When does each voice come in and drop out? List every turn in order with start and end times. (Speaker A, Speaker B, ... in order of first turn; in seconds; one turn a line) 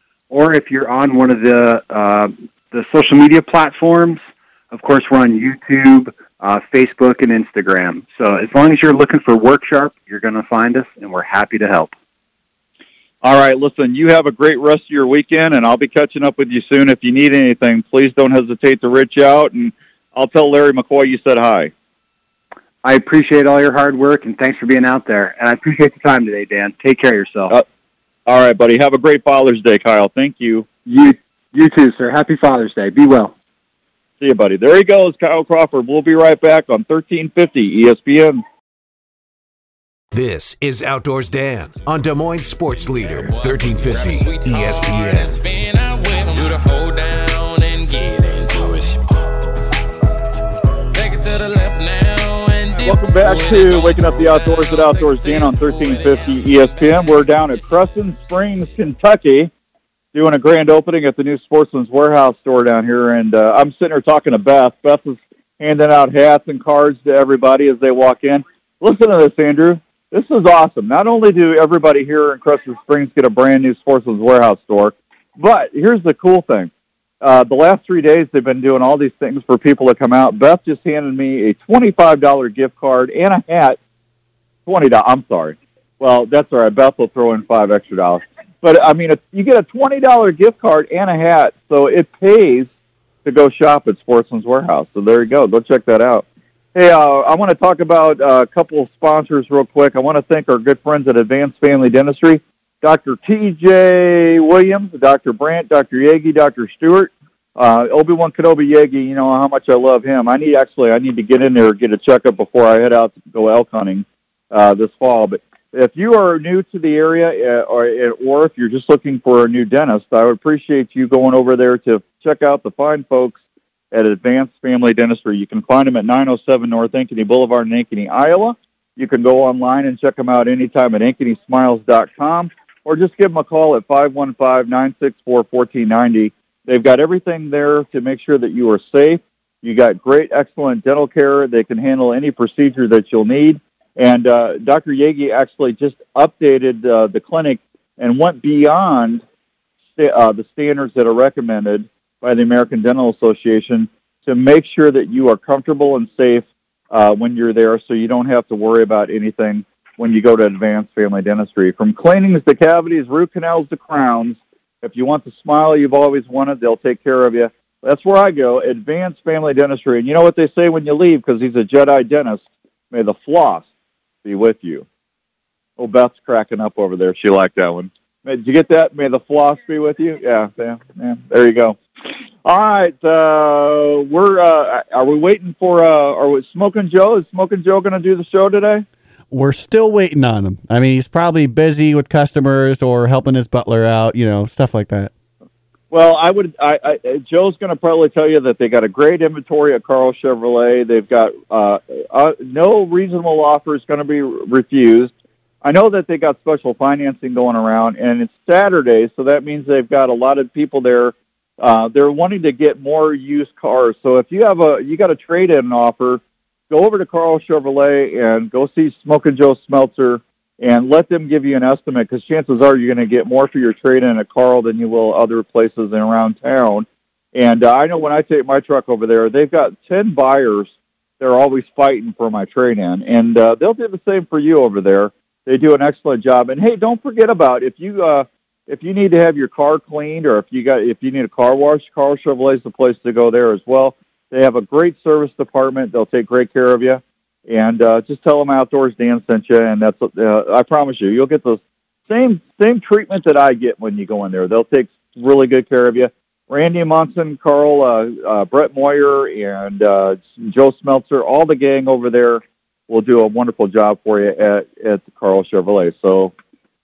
Speaker A: 0.3-11.9
Speaker B: 13.2-21.7
Speaker A: 22.8-27.5
Speaker B: 28.3-30.7
Speaker A: 30.9-33.3
Speaker B: 34.2-38.4
Speaker C: 40.1-45.4
Speaker D: 43.1-49.0
Speaker D: 51.0-56.8
Speaker B: 52.8-59.5
Speaker B: 60.1-76.7
Speaker B: 77.2-83.8
Speaker B: 84.7-92.7
Speaker B: 93.2-123.4
Speaker B: 123.9-149.2
Speaker B: 150.0-173.7
Speaker B: 174.2-174.8
Speaker B: 175.8-181.8
Speaker B: 182.4-188.8
Speaker E: 189.3-195.1
Speaker B: 195.9-205.1
Speaker B: 205.6-266.3